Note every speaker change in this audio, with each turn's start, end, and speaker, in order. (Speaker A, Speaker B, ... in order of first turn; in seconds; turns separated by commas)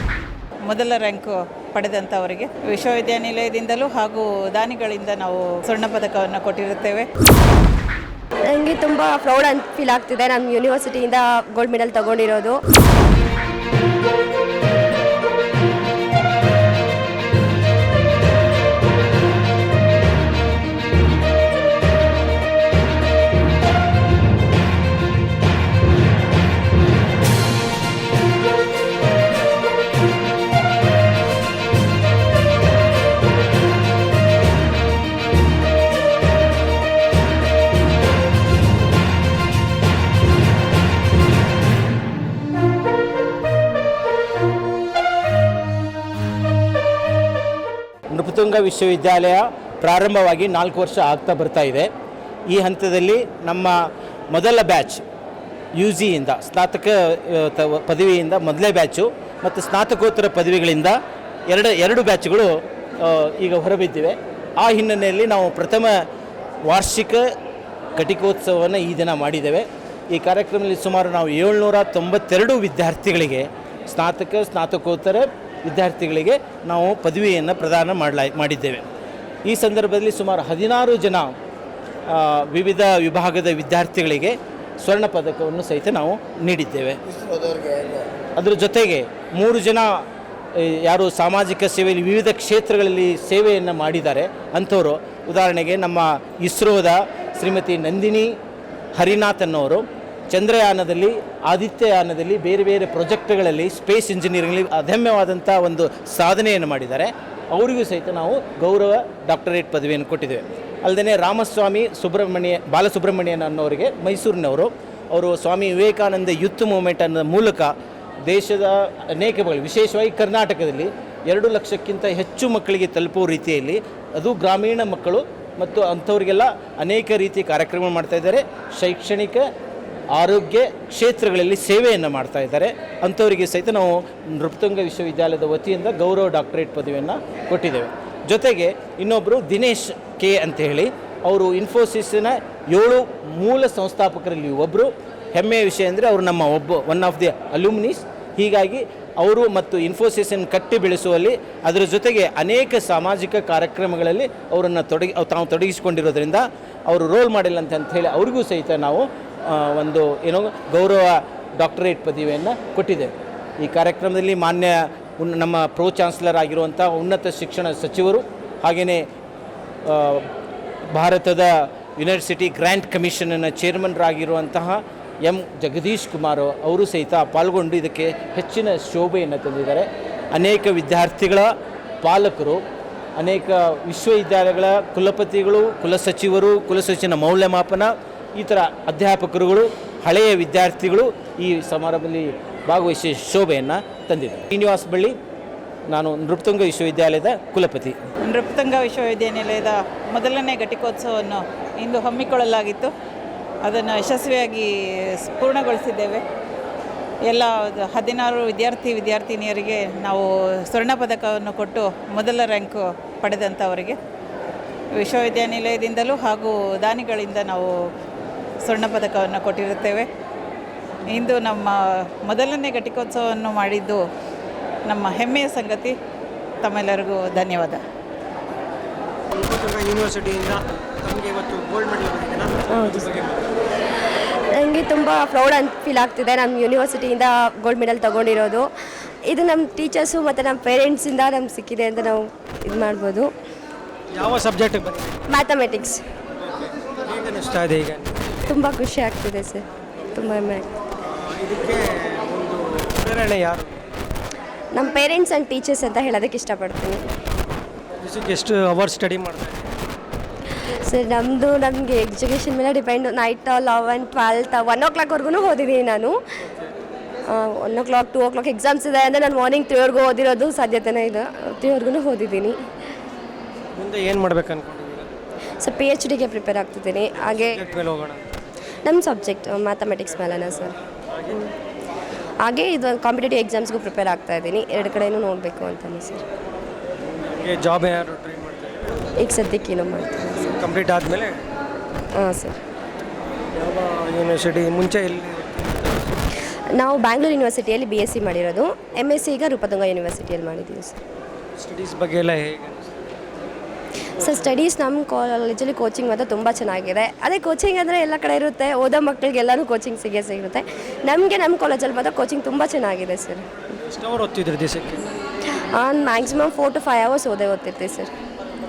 Speaker A: 0.7-7.1, Speaker B: 8.5-12.6, Speaker C: 48.1-51.9, Speaker C: 52.5-53.8, Speaker C: 54.3-55.0, Speaker C: 55.8-61.0, Speaker C: 61.5-66.0, Speaker C: 66.7-67.3, Speaker C: 68.0-78.9, Speaker C: 79.5-81.3, Speaker C: 82.1-87.0, Speaker C: 88.4-90.0, Speaker C: 90.5-98.3, Speaker C: 99.0-117.7, Speaker C: 118.3-129.5, Speaker C: 130.1-169.0, Speaker C: 169.8-170.3, Speaker C: 170.9-181.5, Speaker C: 182.0-182.6, Speaker C: 183.2-195.2, Speaker C: 195.9-198.0, Speaker A: 198.2-202.9, Speaker A: 203.6-206.2, Speaker A: 207.3-214.0, Speaker A: 214.9-217.9, Speaker A: 218.6-220.1, Speaker A: 221.1-224.0, Speaker A: 224.9-226.0, Speaker A: 226.6-227.8, Speaker D: 229.3-233.5, Speaker B: 232.7-233.2, Speaker B: 234.5-238.7, Speaker B: 239.2-243.3, Speaker D: 244.1-245.3, Speaker B: 245.3-246.0, Speaker D: 246.4-248.4, Speaker B: 248.5-250.7, Speaker D: 251.1-253.8, Speaker B: 254.7-257.0, Speaker D: 258.0-259.7, Speaker B: 260.8-266.2, Speaker D: 266.4-266.7, Speaker B: 267.3-272.6, Speaker D: 273.7-275.1, Speaker B: 275.6-277.6, Speaker D: 277.2-278.3, Speaker B: 278.9-280.8, Speaker D: 281.1-281.5, Speaker B: 282.4-286.2, Speaker D: 287.1-289.0, Speaker B: 289.2-290.5, Speaker D: 290.4-291.4, Speaker B: 292.2-292.6, Speaker D: 293.5-296.2, Speaker B: 296.8-301.0, Speaker D: 301.6-303.0, Speaker B: 304.2-313.5, Speaker D: 304.2-304.5, Speaker D: 313.7-315.1, Speaker B: 315.5-318.1